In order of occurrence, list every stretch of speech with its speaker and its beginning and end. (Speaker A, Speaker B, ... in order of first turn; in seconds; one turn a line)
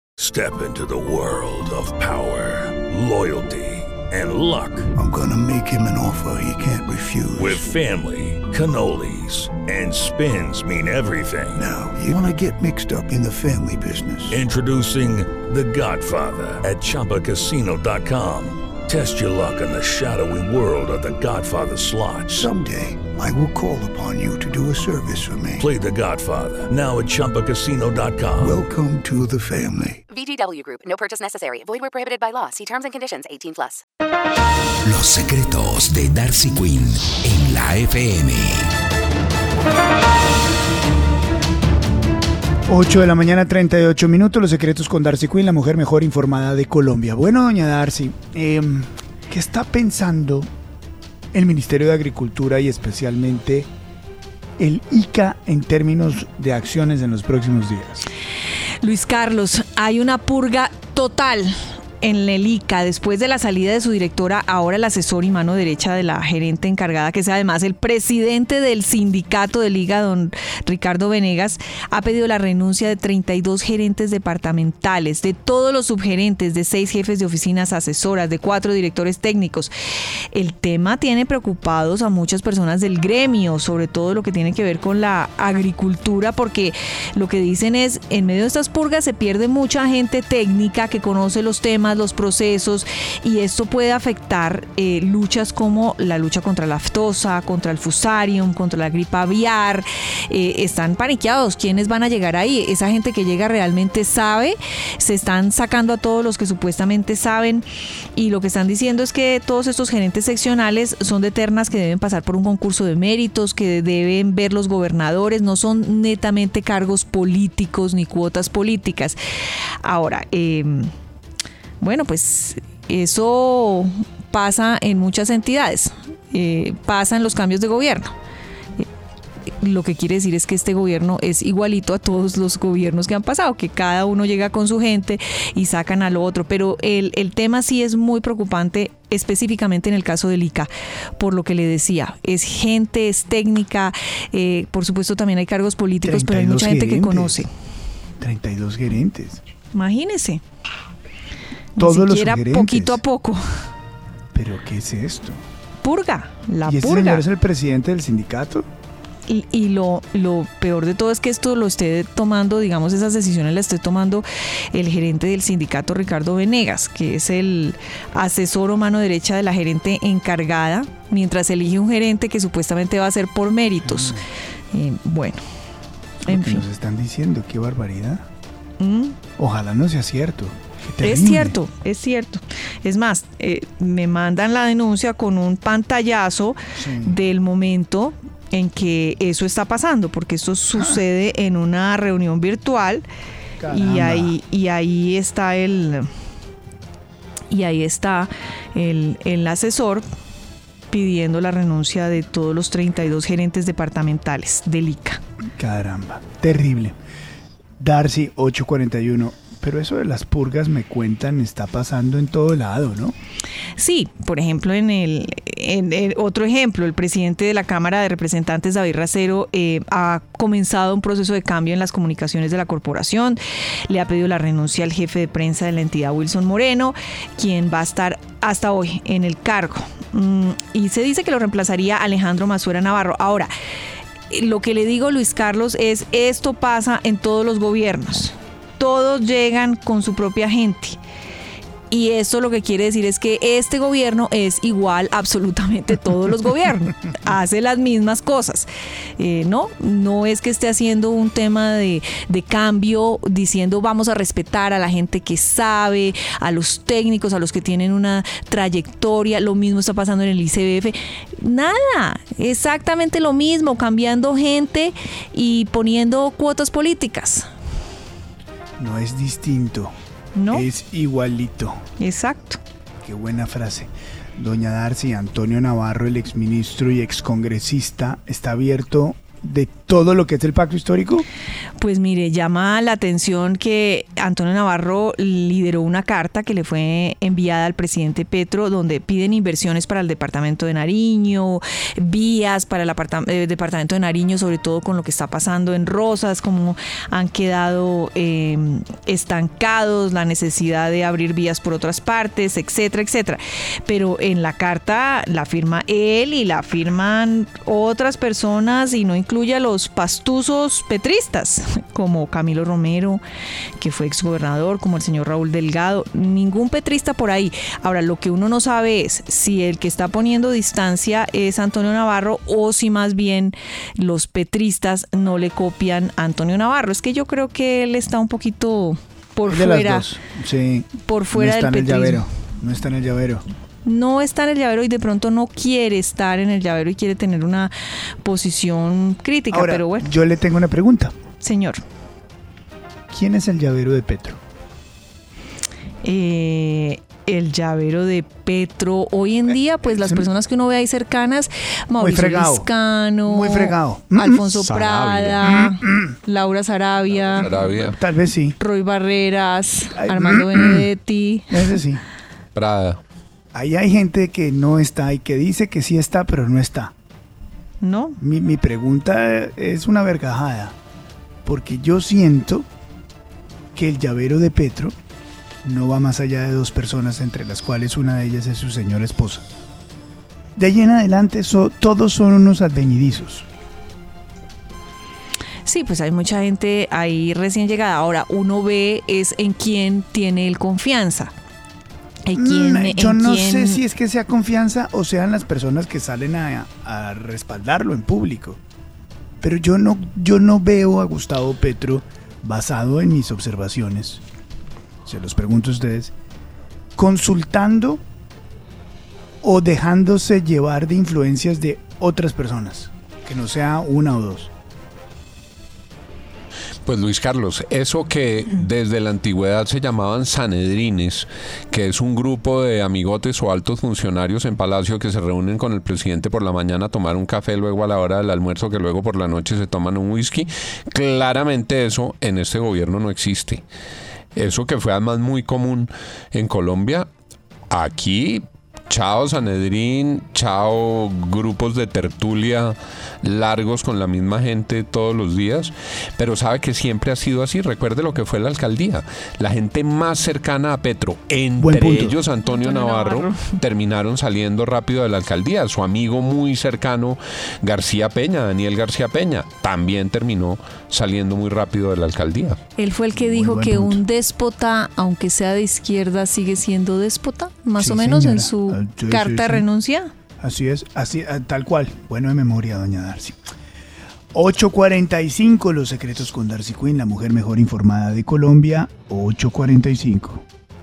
Speaker A: 0.2-4.9
Speaker B: 4.9-7.8
Speaker A: 7.4-11.6
Speaker B: 11.6-14.5
Speaker A: 14.3-22.4
Speaker B: 22.3-25.7
Speaker A: 25.6-28.6
Speaker B: 28.4-30.0
Speaker C: 30.1-33.8
Speaker D: 34.9-38.6
Speaker E: 42.7-50.5
Speaker E: 51.3-53.7
Speaker E: 54.6-58.0
Speaker F: 58.8-79.7
Speaker F: 80.3-119.2
Speaker F: 119.8-120.9
Speaker F: 121.8-128.1
Speaker F: 129.6-147.5
Speaker E: 146.0-147.4
Speaker E: 148.2-149.4
Speaker F: 149.7-150.4
Speaker F: 151.8-153.4
Speaker E: 151.8-153.0
Speaker E: 154.3-155.4
Speaker F: 155.8-157.2
Speaker E: 156.6-158.7
Speaker F: 159.3-174.2
Speaker E: 173.8-174.2
Speaker F: 174.7-175.4
Speaker E: 176.2-178.2
Speaker F: 176.2-176.6
Speaker F: 178.8-179.2
Speaker E: 179.4-181.6
Speaker F: 181.0-193.0
Speaker E: 186.7-187.2
Speaker E: 190.7-191.0
Speaker E: 193.6-194.4
Speaker F: 193.7-196.1
Speaker F: 197.5-200.0
Speaker F: 200.9-205.2
Speaker E: 205.6-206.9
Speaker E: 207.8-213.1
Speaker F: 213.8-233.5
Speaker F: 234.3-241.0
Speaker F: 241.9-267.5
Speaker E: 268.8-269.9
Speaker F: 270.3-270.6
Speaker E: 270.5-271.8
Speaker F: 272.0-272.6
Speaker E: 273.0-281.3
Speaker F: 281.8-313.2
Speaker F: 313.8-330.1
Speaker E: 329.5-333.4
Speaker F: 331.0-332.2
Speaker F: 333.8-337.7
Speaker F: 338.2-340.1
Speaker E: 339.5-341.1
Speaker F: 341.4-341.8
Speaker E: 343.1-344.4
Speaker F: 346.0-357.5
Speaker E: 349.8-350.3
Speaker E: 352.0-352.7
Speaker E: 353.2-355.9
Speaker G: 357.4-358.0
Speaker E: 357.7-358.6
Speaker F: 358.6-361.5
Speaker E: 360.0-360.9
Speaker E: 361.5-362.0
Speaker G: 362.5-363.0
Speaker E: 363.5-366.9
Speaker F: 367.8-368.2
Speaker E: 368.2-370.7
Speaker E: 371.4-372.7
Speaker E: 373.7-374.9
Speaker E: 375.6-379.4
Speaker E: 380.6-383.4
Speaker F: 385.6-391.3
Speaker F: 392.2-393.8
Speaker E: 392.3-398.6
Speaker E: 399.4-404.2
Speaker E: 405.1-406.1
Speaker E: 406.9-408.0
Speaker E: 409.4-414.5
Speaker G: 416.9-433.6
Speaker G: 434.4-437.1
Speaker G: 437.7-462.6
Speaker E: 451.6-452.2
Speaker F: 452.4-453.6
Speaker F: 462.8-470.1
Speaker E: 463.1-464.0
Speaker E: 467.8-469.6
Speaker E: 470.4-473.4
Speaker E: 474.3-480.4